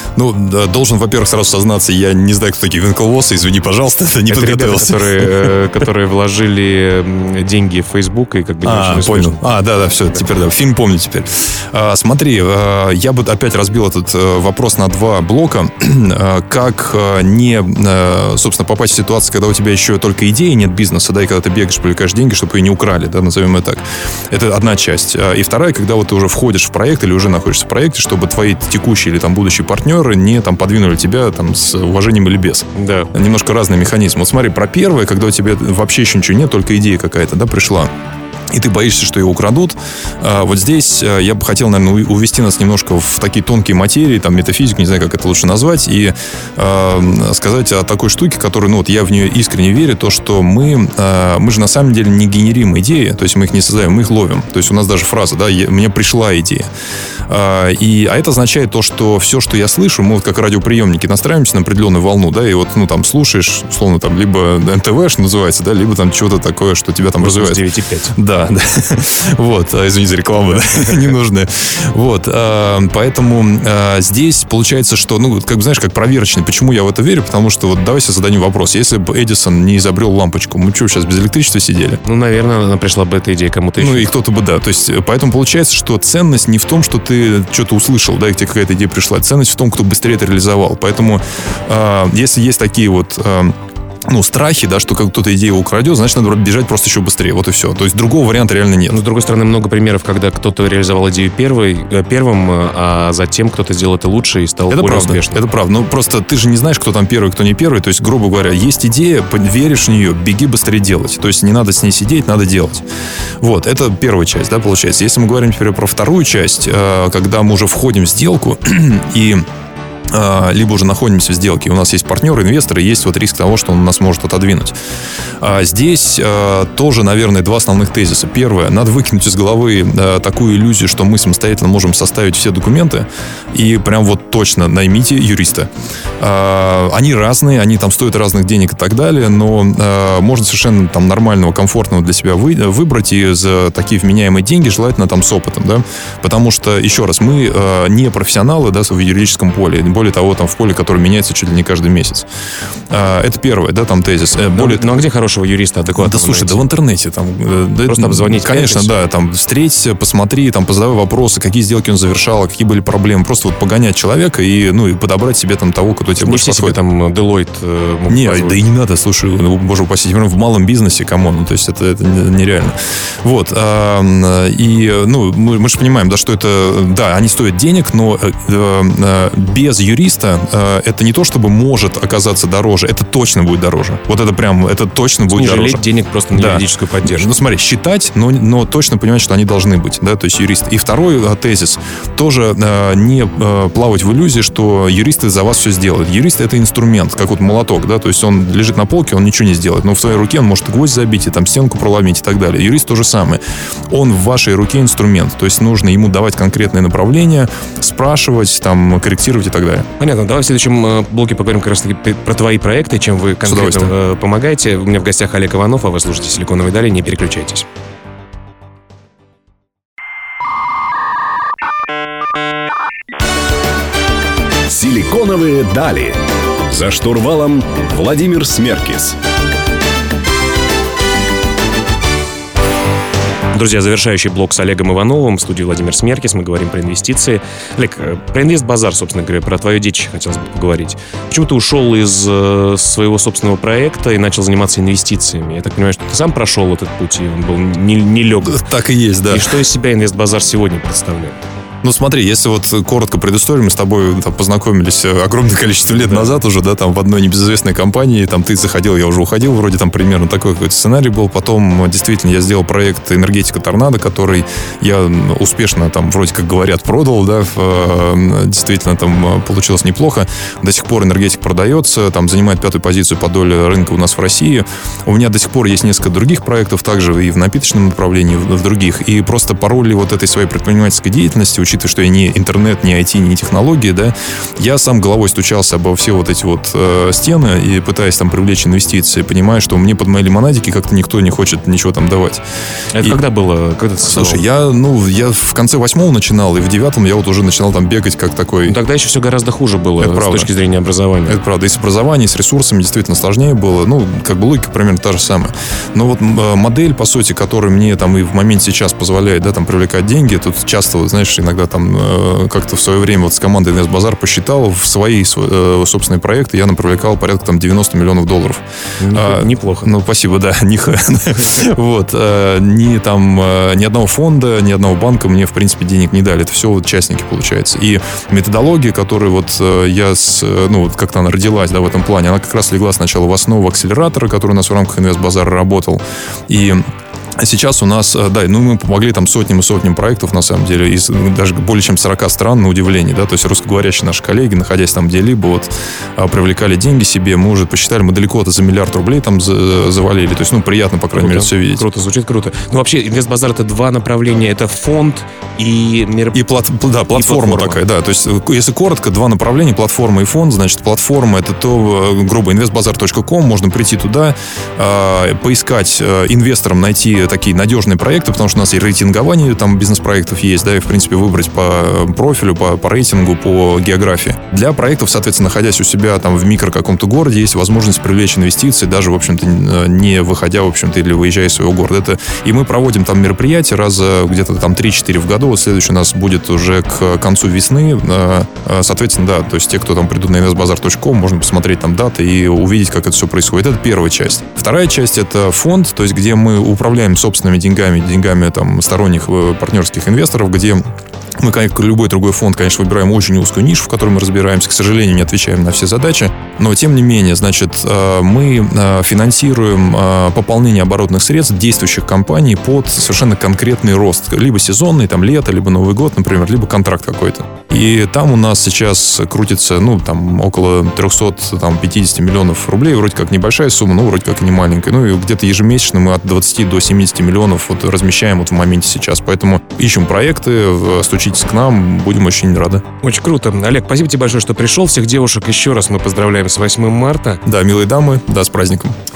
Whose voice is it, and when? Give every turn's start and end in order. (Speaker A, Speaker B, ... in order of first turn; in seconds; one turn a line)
Speaker A: 0.2-5.5
Speaker B: 4.3-9.5
Speaker A: 8.6-37.9
Speaker B: 32.8-33.1
Speaker A: 38.5-56.7
Speaker A: 57.3-67.6
Speaker B: 67.2-68.2
Speaker A: 68.2-82.0
Speaker B: 82.0-84.1
Speaker A: 83.8-93.5
Speaker A: 94.1-99.0
Speaker B: 98.9-105.4
Speaker A: 104.7-112.8
Speaker A: 113.4-119.5
Speaker A: 120.1-124.8
Speaker A: 125.4-135.7
Speaker A: 136.2-152.3
Speaker A: 152.9-155.0
Speaker B: 154.6-156.7
Speaker A: 156.0-166.8
Speaker B: 157.9-158.9
Speaker B: 166.2-168.6
Speaker A: 168.1-185.8
Speaker B: 185.3-187.3
Speaker A: 186.3-209.9
Speaker B: 210.0-217.7
Speaker A: 213.4-213.9
Speaker C: 224.7-229.2
Speaker B: 233.5-248.7
Speaker A: 248.4-249.5
Speaker B: 249.3-251.4
Speaker A: 251.8-292.4
Speaker B: 256.0-256.3
Speaker B: 292.9-294.5
Speaker A: 294.0-298.8
Speaker B: 298.6-301.4
Speaker A: 300.0-300.5
Speaker A: 301.3-318.6
Speaker B: 319.0-319.9
Speaker A: 319.1-336.8
Speaker A: 337.4-351.8
Speaker B: 351.1-356.4
Speaker A: 356.3-400.8
Speaker B: 357.1-357.8
Speaker A: 401.4-432.8
Speaker B: 433.0-437.4
Speaker A: 437.4-438.9